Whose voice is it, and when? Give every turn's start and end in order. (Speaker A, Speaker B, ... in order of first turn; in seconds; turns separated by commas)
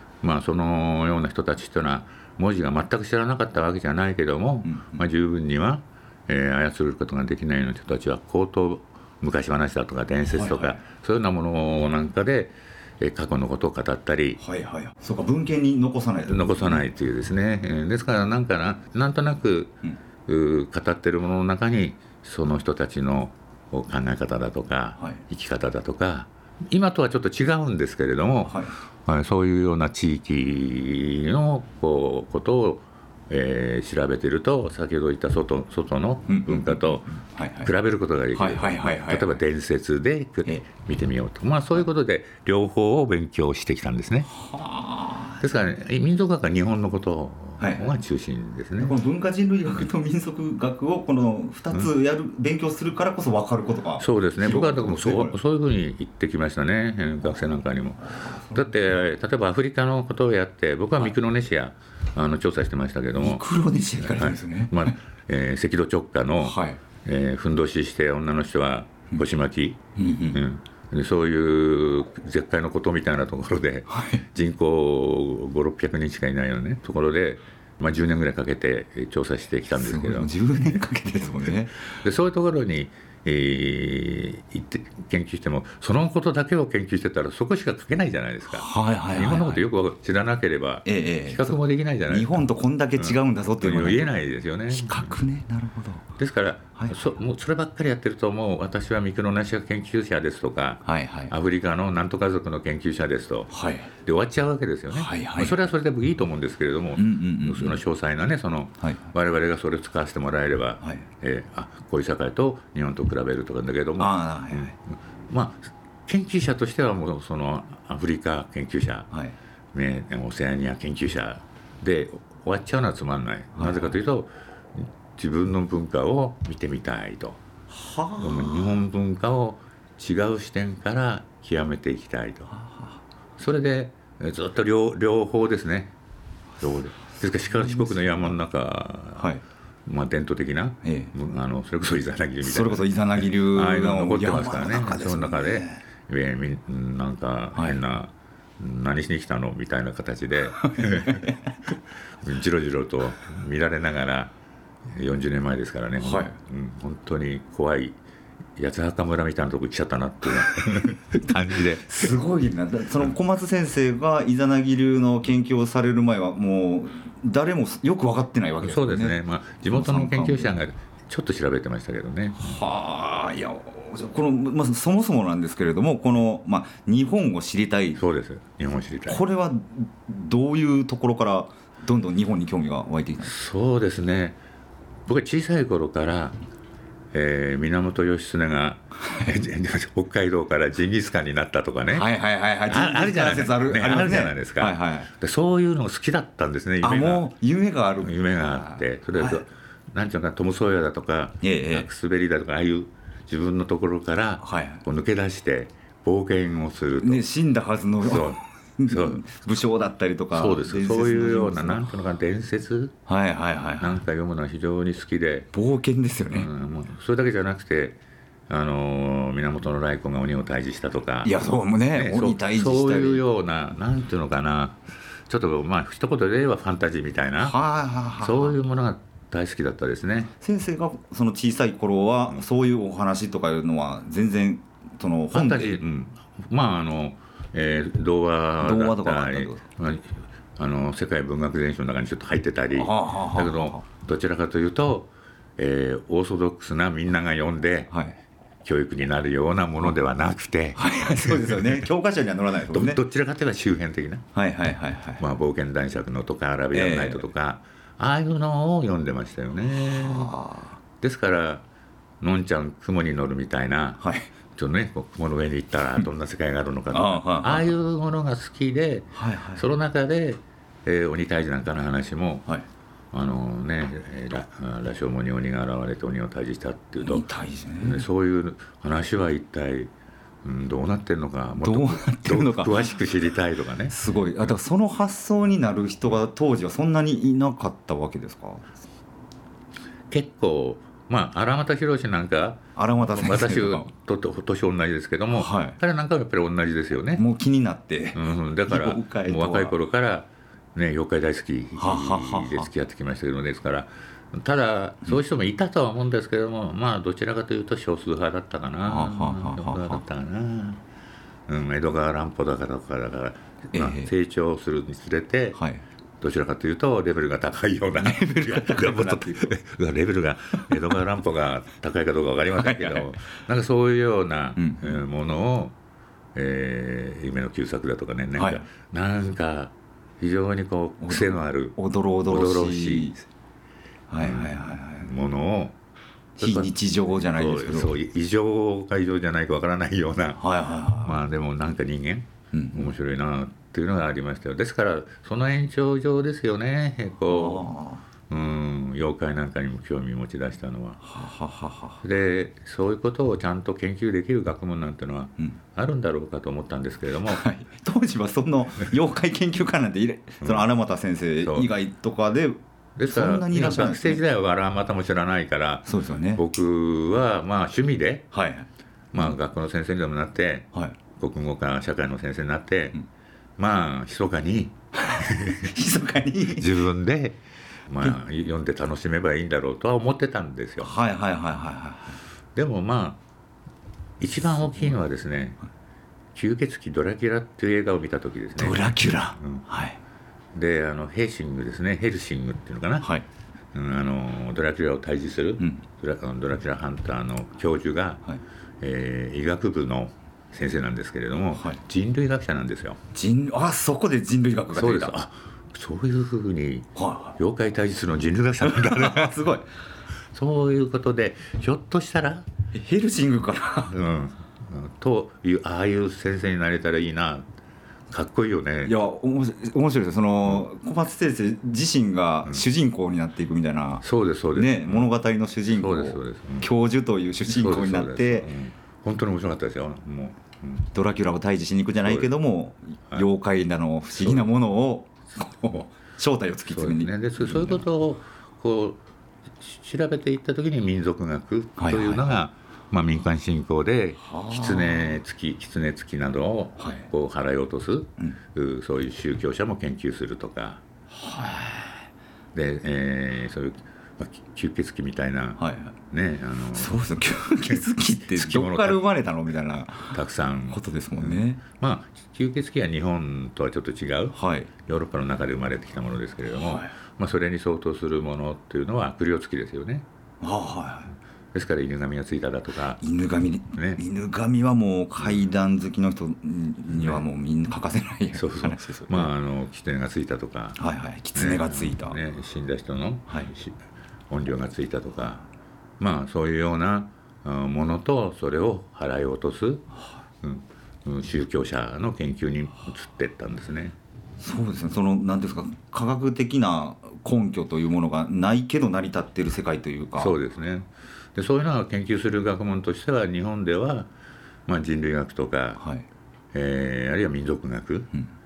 Speaker A: 0.2-14.4, Speaker B: 4.6-5.0, Speaker B: 10.3-10.8, Speaker B: 14.4-16.8, Speaker A: 16.3-37.1, Speaker B: 28.4-28.8, Speaker B: 36.2-37.7, Speaker A: 37.6-44.3, Speaker B: 38.3-39.4, Speaker B: 44.3-45.4, Speaker A: 45.4-49.0, Speaker B: 47.6-47.9, Speaker B: 48.8-55.4, Speaker A: 54.0-63.4, Speaker B: 58.0-58.6, Speaker B: 63.1-65.0, Speaker A: 64.0-80.3, Speaker B: 66.4-66.8, Speaker B: 70.0-70.4, Speaker B: 73.9-74.2, Speaker B: 79.7-81.9, Speaker A: 81.5-92.4, Speaker B: 88.5-89.6, Speaker B: 90.8-94.1, Speaker A: 93.0-95.1, Speaker B: 94.7-96.1, Speaker A: 96.2-119.1, Speaker B: 96.8-97.0, Speaker B: 100.8-101.3, Speaker B: 103.5-103.9, Speaker B: 104.9-105.6, Speaker B: 107.0-107.8, Speaker B: 110.8-111.1, Speaker B: 114.0-114.7, Speaker B: 119.1-119.3, Speaker A: 119.7-127.4, Speaker B: 123.5-123.9, Speaker B: 127.7-128.8, Speaker A: 128.2-132.5, Speaker B: 132.5-132.9, Speaker A: 133.4-135.9, Speaker B: 136.6-137.0, Speaker A: 136.9-139.3, Speaker B: 137.5-138.3, Speaker B: 139.2-139.4, Speaker A: 139.8-151.3, Speaker B: 140.8-141.1, Speaker B: 142.4-145.8, Speaker B: 147.5-147.8, Speaker B: 150.6-151.5, Speaker A: 152.2-154.3, Speaker A: 154.9-158.0, Speaker B: 156.0-156.4, Speaker A: 158.6-162.1, Speaker B: 160.5-169.2, Speaker A: 168.6-172.6, Speaker B: 169.7-170.6, Speaker B: 172.4-178.0, Speaker A: 178.0-179.2, Speaker B: 179.1-183.3, Speaker A: 183.2-184.4, Speaker A: 185.1-186.4, Speaker A: 187.1-192.1, Speaker B: 189.1-189.3, Speaker B: 191.9-195.1, Speaker A: 192.7-197.3, Speaker B: 196.8-199.4, Speaker A: 198.0-207.2, Speaker B: 201.4-201.9, Speaker B: 204.4-204.8, Speaker B: 207.0-211.9, Speaker A: 208.0-209.2, Speaker A: 210.3-212.9, Speaker B: 213.1-214.0, Speaker A: 213.8-215.5, Speaker B: 215.5-216.5, Speaker A: 216.3-221.4, Speaker B: 221.2-223.2, Speaker A: 221.9-227.6, Speaker B: 227.4-228.6, Speaker A: 228.2-230.3, Speaker B: 230.4-235.8, Speaker A: 235.3-247.9, Speaker B: 238.6-239.6, Speaker B: 242.8-243.8, Speaker B: 247.9-248.2, Speaker A: 248.6-251.8, Speaker B: 250.8-253.0, Speaker A: 252.7-254.2, Speaker B: 254.3-255.2, Speaker A: 255.2-260.3, Speaker B: 256.7-257.2, Speaker B: 259.8-260.8, Speaker A: 261.0-261.6, Speaker A: 262.2-264.0, Speaker B: 264.0-264.3, Speaker A: 264.5-272.5, Speaker B: 266.9-267.7, Speaker B: 269.1-269.6, Speaker A: 273.1-277.3, Speaker B: 277.0-278.0, Speaker A: 277.8-279.9, Speaker A: 280.4-283.9, Speaker B: 281.6-282.8, Speaker B: 283.9-288.8, Speaker A: 290.1-297.2, Speaker B: 292.8-293.9, Speaker B: 295.3-295.8, Speaker B: 297.1-299.7, Speaker A: 298.1-310.8, Speaker B: 301.7-302.7, Speaker B: 308.8-310.0, Speaker A: 311.5-315.6, Speaker B: 313.7-314.1, Speaker B: 315.6-315.8, Speaker A: 316.2-325.7, Speaker B: 318.0-319.6, Speaker B: 322.6-323.1, Speaker B: 324.6-325.0, Speaker A: 326.3-333.1, Speaker B: 328.4-328.7, Speaker B: 331.0-333.2, Speaker B: 334.1-335.1, Speaker A: 334.2-335.8, Speaker A: 336.4-340.4, Speaker B: 336.4-337.9, Speaker B: 340.4-341.2, Speaker A: 341.0-347.6, Speaker B: 342.5-342.9, Speaker B: 347.3-348.0, Speaker A: 348.3-351.0, Speaker B: 351.0-352.0, Speaker A: 352.0-357.5, Speaker B: 357.3-364.2, Speaker A: 361.4-361.7, Speaker A: 363.0-368.3, Speaker B: 365.9-366.4, Speaker B: 368.3-368.7, Speaker A: 369.1-372.9, Speaker A: 373.6-375.7, Speaker B: 375.0-376.7, Speaker A: 376.5-380.9, Speaker B: 380.8-382.2, Speaker A: 382.5-383.2, Speaker A: 384.2-385.6, Speaker A: 386.3-389.6, Speaker B: 388.6-390.0, Speaker A: 390.5-393.1, Speaker A: 393.7-398.2, Speaker A: 398.8-403.0, Speaker B: 401.5-401.8, Speaker B: 403.1-405.1, Speaker A: 404.7-409.3, Speaker B: 406.9-407.4, Speaker B: 408.6-409.7, Speaker A: 410.3-412.5, Speaker B: 412.7-413.9, Speaker A: 413.9-417.5, Speaker A: 418.1-419.0, Speaker B: 418.8-428.5, Speaker A: 424.0-425.1, Speaker A: 425.7-426.7, Speaker A: 427.5-430.9, Speaker B: 430.9-437.8, Speaker A: 432.0-432.3, Speaker A: 434.2-434.4, Speaker A: 436.7-439.0, Speaker A: 439.6-450.8, Speaker B: 441.8-442.3, Speaker B: 444.2-445.2, Speaker B: 446.8-447.1, Speaker B: 451.1-452.0, Speaker A: 452.5-457.0, Speaker B: 455.6-455.9, Speaker B: 456.7-460.1, Speaker A: 458.3-459.0, Speaker A: 460.1-470.1, Speaker B: 460.7-461.6, Speaker B: 464.3-464.7, Speaker B: 466.5-466.9, Speaker B: 470.4-471.1, Speaker A: 471.5-473.0, Speaker B: 473.0-479.3, Speaker A: 473.7-474.0, Speaker A: 476.9-477.2, Speaker A: 478.3-480.8, Speaker B: 480.8-482.2, Speaker A: 481.3-483.8, Speaker B: 483.3-483.5, Speaker A: 484.3-485.4, Speaker A: 486.0-489.9, Speaker A: 490.4-493.9, Speaker B: 494.4-500.4, Speaker A: 500.2-504.1, Speaker A: 504.7-505.8, Speaker B: 505.8-506.1, Speaker A: 506.5-508.1